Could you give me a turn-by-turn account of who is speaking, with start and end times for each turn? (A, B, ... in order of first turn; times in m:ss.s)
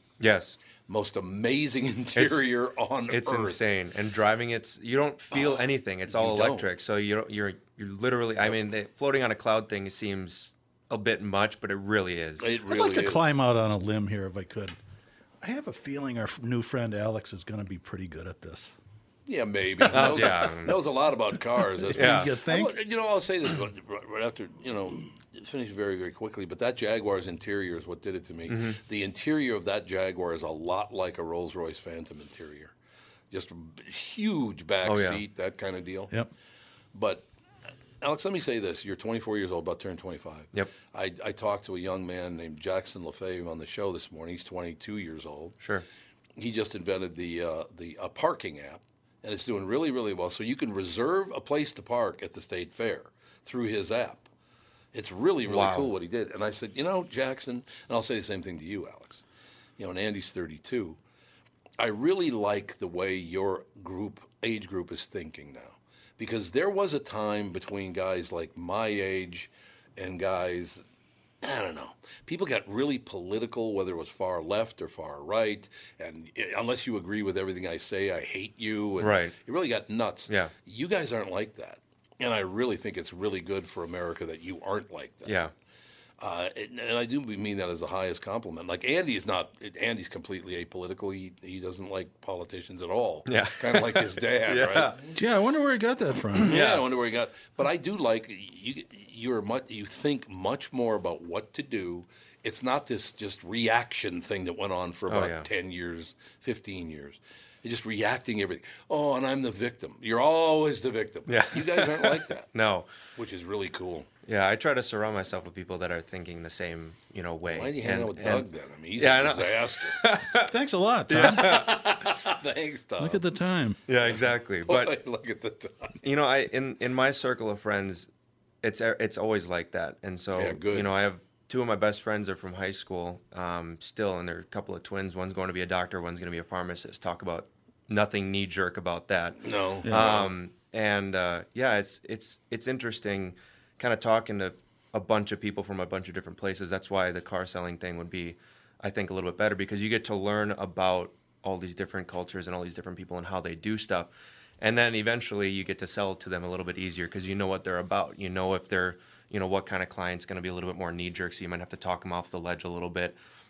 0:00.2-0:00.6 A
0:00.9-0:03.6 B
0:02.2-0:02.4 A
0:03.1-0:12.6 A
0:05.3-0:06.7 B
0:12.4-0:13.3 B
0:12.7-0:14.8 C
0:15.4-0:18.8 C
0:19.3-0:32.7 B
0:19.9-0:20.8 A
0:20.0-0:20.3 C
0:21.8-0:22.8 C
0:22.0-0:22.4 A
0:28.5-0:28.8 A
0:33.3-0:36.2 B
0:34.8-0:35.2 A
0:36.9-0:37.3 B
0:38.0-0:45.6 B
0:45.6-0:45.8 A
0:46.4-0:54.3 B
0:54.9-0:59.2 B
0:55.4-0:55.9 A
0:59.8-1:01.0 B
1:01.8-1:10.8 B
1:11.4-1:25.4 B
1:19.0-1:19.3 A
1:25.2-1:25.5 A
1:26.2-1:35.0 B
1:33.3-1:35.0 A
1:35.1-1:36.6 C
1:36.4-1:52.5 B
1:36.5-1:36.8 A
1:45.1-1:45.5 A
1:51.3-1:52.9 A
1:53.2-1:54.1 B
1:54.3-2:00.5 A
1:57.5-2:00.1 B
2:00.4-2:01.5 C
2:01.1-2:02.1 A
2:01.2-2:03.2 B
2:03.0-2:03.8 C
2:03.9-2:05.0 A
2:04.0-2:06.0 B
2:06.0-2:08.1 A
2:08.6-2:43.2 A
2:10.4-2:10.9 B
2:19.4-2:20.3 B
2:19.8-2:20.1 C